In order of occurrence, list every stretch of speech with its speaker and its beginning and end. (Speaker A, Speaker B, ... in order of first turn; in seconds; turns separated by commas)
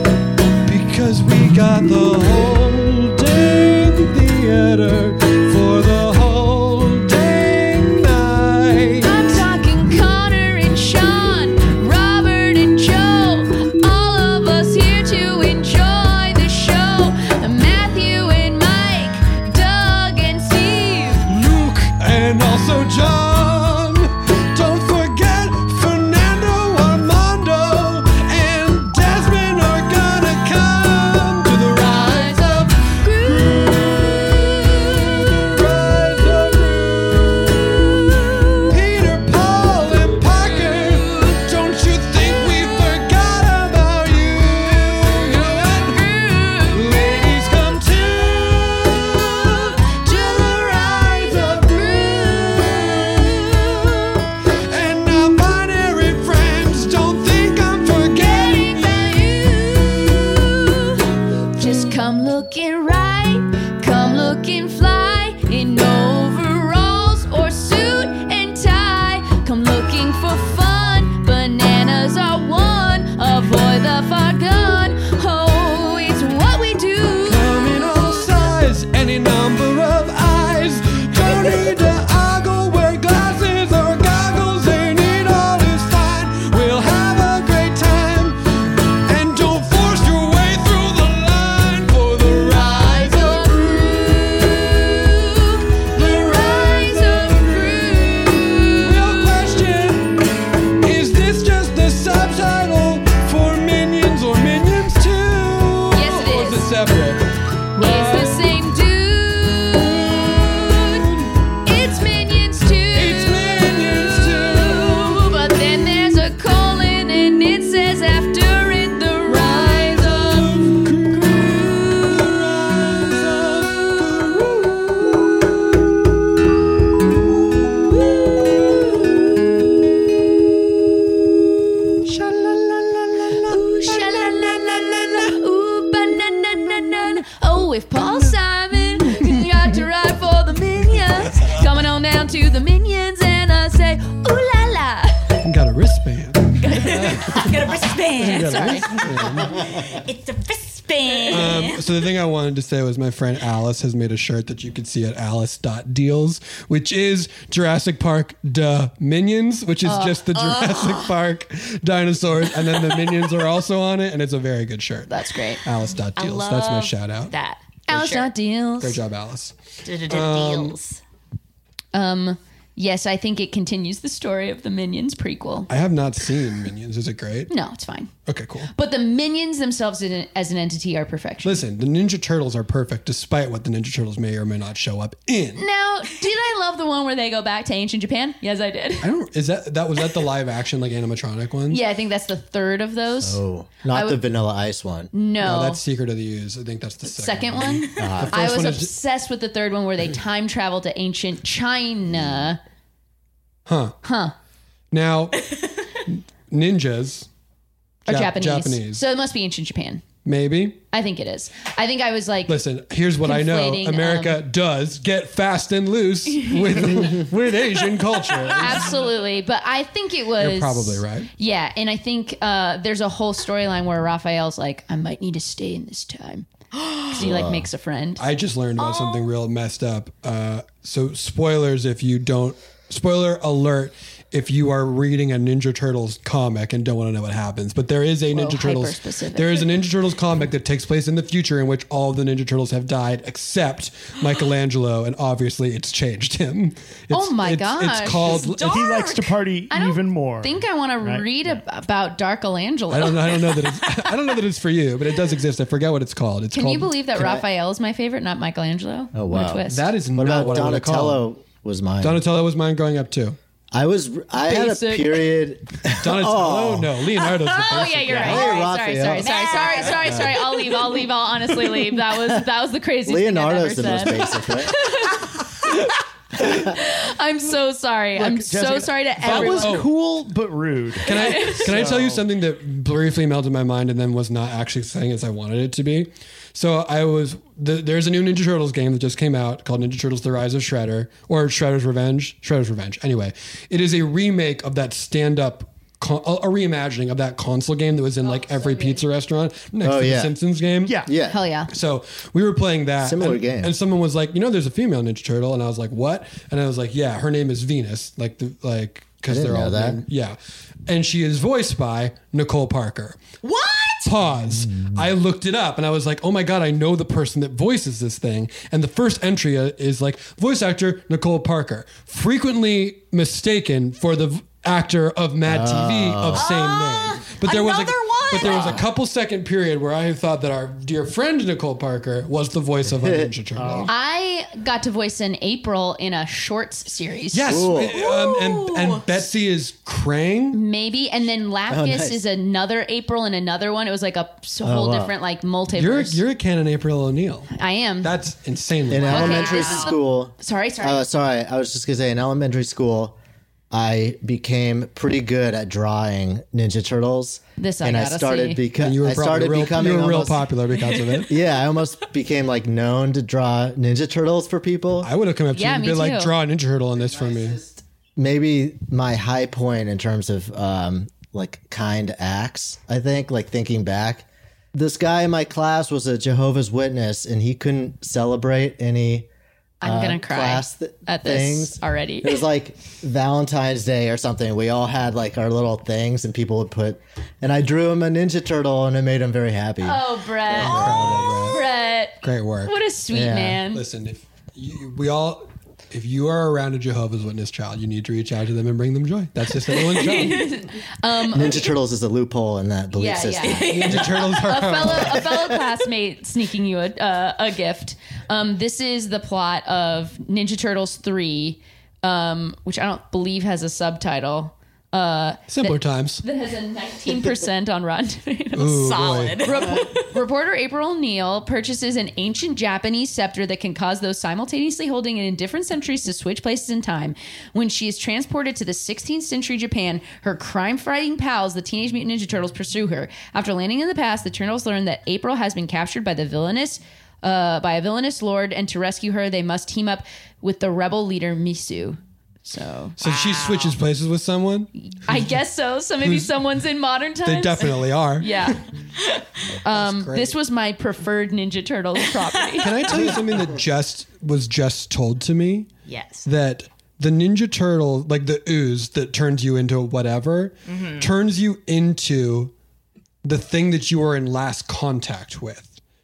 Speaker A: 0.7-9.4, Speaker B: 9.0-21.3, Speaker A: 21.3-38.0, Speaker B: 31.8-33.8, Speaker A: 38.7-46.1, Speaker B: 40.4-41.4, Speaker B: 44.9-47.2, Speaker A: 46.6-53.5, Speaker B: 49.5-54.2, Speaker A: 54.7-59.2, Speaker B: 58.2-61.0, Speaker B: 61.6-78.4, Speaker A: 77.3-88.4, Speaker A: 89.1-94.8, Speaker B: 92.5-99.5, Speaker A: 96.0-98.3, Speaker A: 98.8-100.2, Speaker A: 100.8-107.2, Speaker B: 105.9-106.7, Speaker A: 107.8-108.5, Speaker B: 107.8-111.0, Speaker A: 109.9-111.3, Speaker B: 111.7-122.3, Speaker A: 112.9-115.3, Speaker A: 119.3-125.6, Speaker B: 123.8-124.1, Speaker B: 127.9-129.1, Speaker A: 132.1-133.7, Speaker B: 133.4-145.3, Speaker A: 138.0-138.3, Speaker A: 139.1-139.5, Speaker A: 141.3-141.6, Speaker A: 145.4-149.7, Speaker B: 146.6-147.5, Speaker C: 146.7-151.9, Speaker B: 148.2-148.9, Speaker A: 151.3-167.3, Speaker B: 159.8-160.2, Speaker C: 160.3-161.1, Speaker C: 162.9-163.1, Speaker B: 165.1-165.6, Speaker C: 166.2-168.3, Speaker B: 167.9-169.0, Speaker A: 168.8-170.8, Speaker C: 169.8-171.0, Speaker B: 171.9-175.7, Speaker A: 175.7-177.5, Speaker B: 177.5-178.1, Speaker A: 178.3-178.7, Speaker B: 178.7-181.6, Speaker A: 181.4-185.7, Speaker B: 185.6-189.1, Speaker A: 189.0-191.8, Speaker B: 191.7-194.2, Speaker D: 193.2-195.1, Speaker B: 195.1-195.8, Speaker A: 195.4-198.9, Speaker B: 197.1-202.6, Speaker D: 198.0-198.4, Speaker A: 203.7-204.0, Speaker B: 204.0-204.3, Speaker A: 204.9-205.5, Speaker A: 206.1-207.3, Speaker A: 208.1-209.0, Speaker B: 208.1-210.1, Speaker A: 210.2-210.8, Speaker B: 210.9-212.6, Speaker A: 212.5-219.1, Speaker B: 213.2-214.4, Speaker B: 218.6-226.5, Speaker A: 220.4-221.3, Speaker B: 227.1-228.2, Speaker D: 227.2-227.7, Speaker A: 228.2-248.8, Speaker C: 228.8-229.2, Speaker B: 238.3-239.7, Speaker B: 247.1-248.4, Speaker C: 248.3-249.4, Speaker E: 248.6-251.3, Speaker B: 249.7-253.3, Speaker A: 252.9-257.0, Speaker B: 256.5-259.8, Speaker D: 257.2-257.4, Speaker D: 259.1-259.6, Speaker A: 259.7-261.2, Speaker D: 260.1-262.2, Speaker A: 262.0-263.4, Speaker D: 263.7-267.0, Speaker B: 264.4-265.3, Speaker A: 266.0-268.5, Speaker B: 267.5-279.8, Speaker D: 268.1-269.4, Speaker C: 268.3-270.7, Speaker D: 270.1-270.3, Speaker D: 273.1-274.8, Speaker E: 278.2-282.2, Speaker A: 279.2-279.9, Speaker A: 281.0-301.0, Speaker B: 281.1-281.7, Speaker C: 298.2-299.0, Speaker D: 299.8-300.3, Speaker E: 300.9-301.1, Speaker D: 301.1-301.4, Speaker B: 301.3-301.7, Speaker A: 301.7-313.2, Speaker D: 303.0-303.7, Speaker D: 309.3-310.0, Speaker C: 313.4-314.1, Speaker A: 314.0-333.9, Speaker D: 314.4-315.1, Speaker D: 325.4-326.5, Speaker C: 326.3-328.9, Speaker D: 328.5-328.8, Speaker D: 332.8-333.9, Speaker B: 333.9-337.6, Speaker A: 337.3-340.6, Speaker D: 337.5-338.0, Speaker C: 337.9-339.1, Speaker B: 340.5-346.2, Speaker D: 341.7-342.2, Speaker D: 344.6-345.1, Speaker A: 345.7-349.5, Speaker B: 347.6-348.1, Speaker D: 348.9-353.2, Speaker C: 349.0-350.0, Speaker B: 349.1-351.1, Speaker D: 353.7-360.5, Speaker B: 357.6-358.6, Speaker A: 358.8-361.4, Speaker C: 360.9-361.2, Speaker D: 361.3-365.1, Speaker A: 365.0-367.6, Speaker B: 365.5-366.3, Speaker D: 367.0-379.3, Speaker B: 379.8-382.4, Speaker D: 379.8-391.3, Speaker B: 389.8-393.8, Speaker A: 390.6-391.6, Speaker C: 390.9-391.4, Speaker A: 392.2-392.8, Speaker D: 393.1-393.6, Speaker A: 393.7-400.5, Speaker B: 399.7-401.6, Speaker D: 401.3-404.1, Speaker B: 402.9-418.9, Speaker C: 403.4-404.5, Speaker A: 403.7-405.2, Speaker A: 415.5-416.2, Speaker A: 418.6-419.6, Speaker C: 418.8-420.1, Speaker B: 419.4-443.0, Speaker A: 443.0-445.4, Speaker C: 443.0-443.8, Speaker B: 444.9-448.6, Speaker A: 446.0-446.4, Speaker A: 447.2-448.6, Speaker B: 449.6-452.8, Speaker A: 449.7-450.4, Speaker A: 452.6-455.7, Speaker C: 455.9-456.2, Speaker A: 456.2-462.5, Speaker C: 460.7-461.1, Speaker A: 463.2-465.8